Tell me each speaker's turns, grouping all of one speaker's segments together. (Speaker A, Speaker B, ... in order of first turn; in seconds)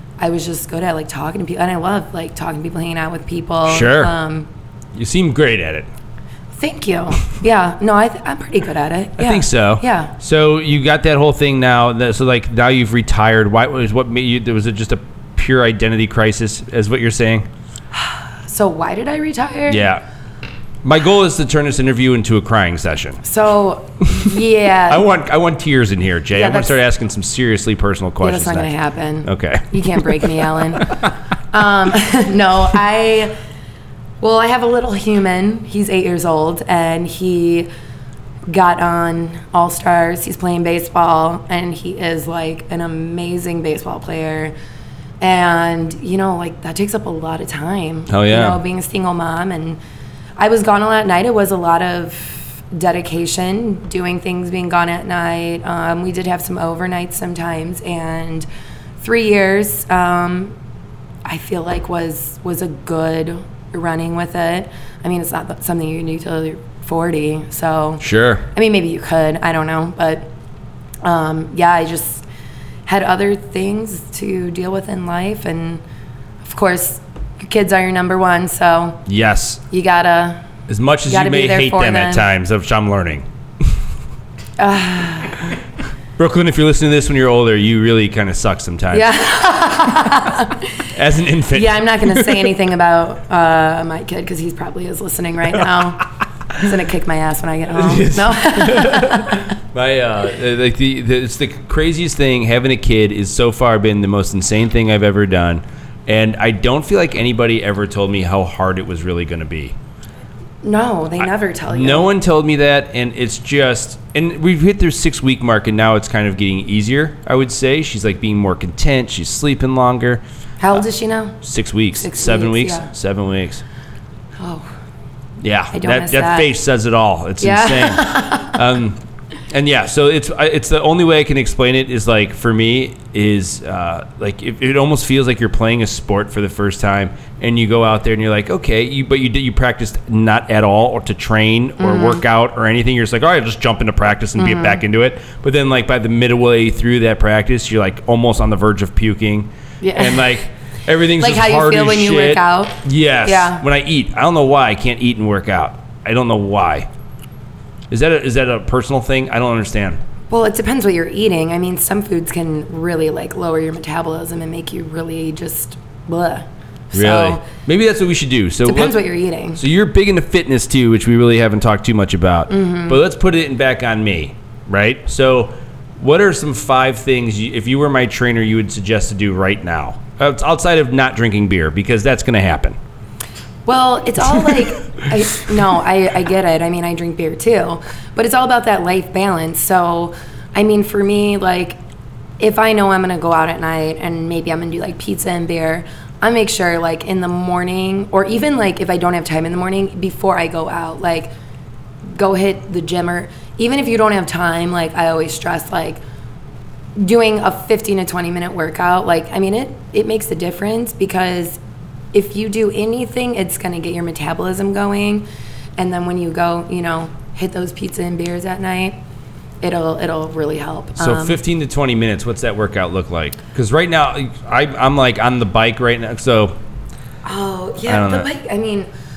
Speaker A: 0.2-4.5, 6.6-10.1, 17.9-19.9, 23.2-25.1, 26.3-26.8, 28.2-30.9, 31.5-33.4, 34.2-37.7, 38.5-44.5, 45.2-49.8, 50.4-58.5, 59.0-60.5, 61.2-70.3, 71.0-72.2, 72.9-75.8, 76.4-79.0, 79.7-80.4, 81.1-82.3, 84.6-85.5, 88.9-90.9, 91.5-96.0, 96.6-99.5, 110.6-112.1, 120.6-121.4, 122.0-122.9, 124.4-124.7, 125.7-126.5, 127.4-128.6, 141.8-142.2, 144.4-144.8, 149.8-150.4, 151.2-153.6, 160.3-167.4, 168.7-169.6, 172.5-173.0, 183.7-191.8, 192.4-201.3, 202.1-206.0, 207.0-211.6, 212.1-219.0, 219.6-221.4, 227.2-228.9
Speaker B: 3.7-4.1, 5.0-5.9, 9.2-17.5, 19.7-20.0, 20.8-23.2, 24.9-28.7, 29.2-30.8, 48.1-48.6, 68.0-68.5, 79.1-79.6, 80.7-83.3, 86.2-89.1, 90.9-92.3, 97.8-109.8, 111.7-120.2, 121.4-123.6, 125.4-156.9, 157.9-160.0, 166.9-169.0, 169.6-182.8, 221.0-226.6, 227.8-228.3